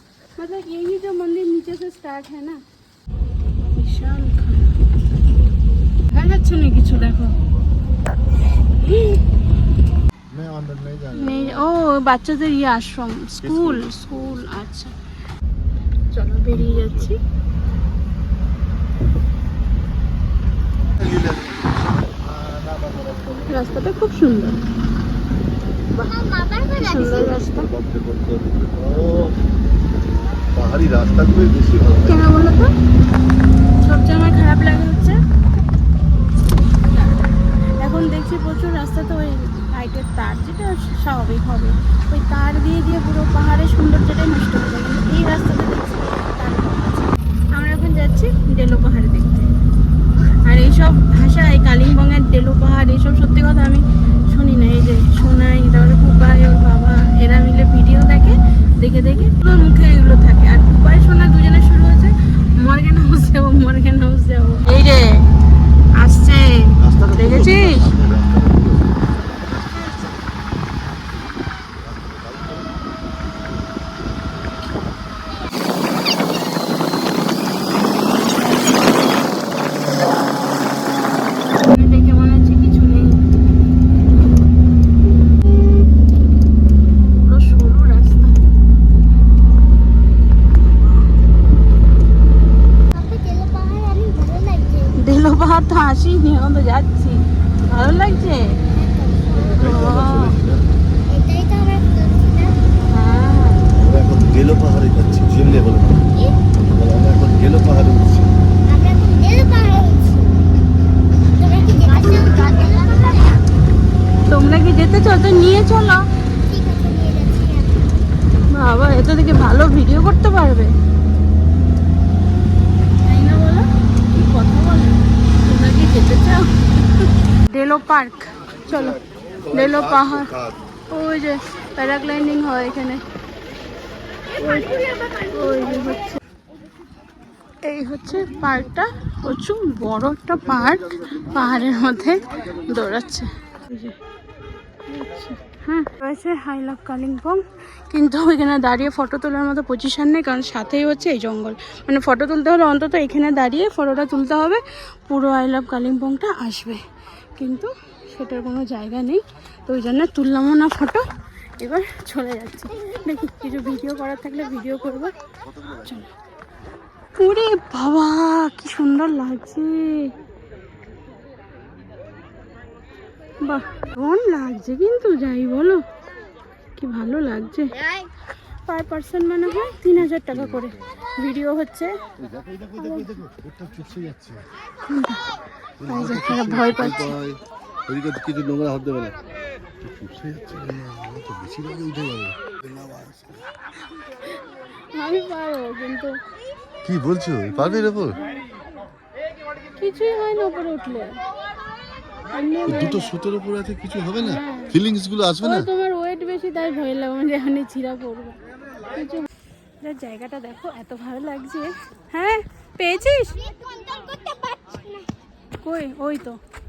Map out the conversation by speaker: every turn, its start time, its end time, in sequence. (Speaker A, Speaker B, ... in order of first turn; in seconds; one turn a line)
Speaker A: 0.4-2.6
Speaker A: 3.7-4.7
Speaker A: 6.1-7.3
Speaker A: 8.8-9.2
Speaker B: 10.3-11.7
Speaker A: 11.1-14.9
Speaker B: 13.4-14.5
Speaker A: 16.1-17.2
Speaker B: 16.5-17.1
Speaker B: 20.9-23.6
Speaker A: 23.5-24.6
Speaker C: 26.0-27.3
Speaker A: 26.8-27.7
Speaker B: 26.9-29.4
Speaker B: 30.5-32.5
Speaker A: 32.0-32.7
Speaker A: 33.8-35.2
Speaker A: 36.9-37.2
Speaker A: 37.8-49.5
Speaker A: 50.5-65.2
Speaker A: 66.0-67.8
Speaker B: 66.8-69.2
Speaker B: 71.1-72.7
Speaker A: 81.6-83.2
Speaker A: 87.2-88.4
Speaker C: 92.9-94.9
Speaker A: 95.0-98.5
Speaker C: 98.7-99.6
Speaker B: 99.3-100.6
Speaker A: 99.6-100.3
Speaker C: 101.1-102.5
Speaker A: 102.9-103.7
Speaker B: 103.7-106.1
Speaker B: 106.7-108.3
Speaker C: 108.7-110.4
Speaker C: 111.3-113.3
Speaker A: 112.0-113.2
Speaker A: 114.2-116.0
Speaker C: 116.4-118.0
Speaker A: 118.5-120.7
Speaker A: 123.0-129.0
Speaker B: 128.7-130.6
Speaker A: 129.5-130.3
Speaker A: 130.9-133.0
Speaker A: 134.4-136.2
Speaker C: 134.4-135.9
Speaker A: 137.6-144.0
Speaker B: 140.6-142.7
Speaker A: 144.9-156.8
Speaker A: 157.4-161.1
Speaker A: 161.6-165.1
Speaker B: 165.4-166.1
Speaker A: 167.2-170.1
Speaker A: 173.4-175.8
Speaker A: 176.8-177.7
Speaker A: 178.7-181.9
Speaker B: 180.0-180.7
Speaker B: 182.2-184.4
Speaker A: 182.8-183.2
Speaker A: 184.8-185.2
Speaker B: 185.8-189.2
Speaker A: 185.9-187.1
Speaker B: 189.8-193.4
Speaker A: 194.9-196.2
Speaker B: 196.8-198.2
Speaker A: 197.5-198.2
Speaker A: 199.8-201.2
Speaker A: 202.3-203.1
Speaker B: 202.7-205.7
Speaker A: 204.2-204.7
Speaker A: 205.4-208.4
Speaker A: 208.9-209.3
Speaker A: 209.8-213.4
Speaker C: 213.2-215.1
Speaker A: 215.6-216.4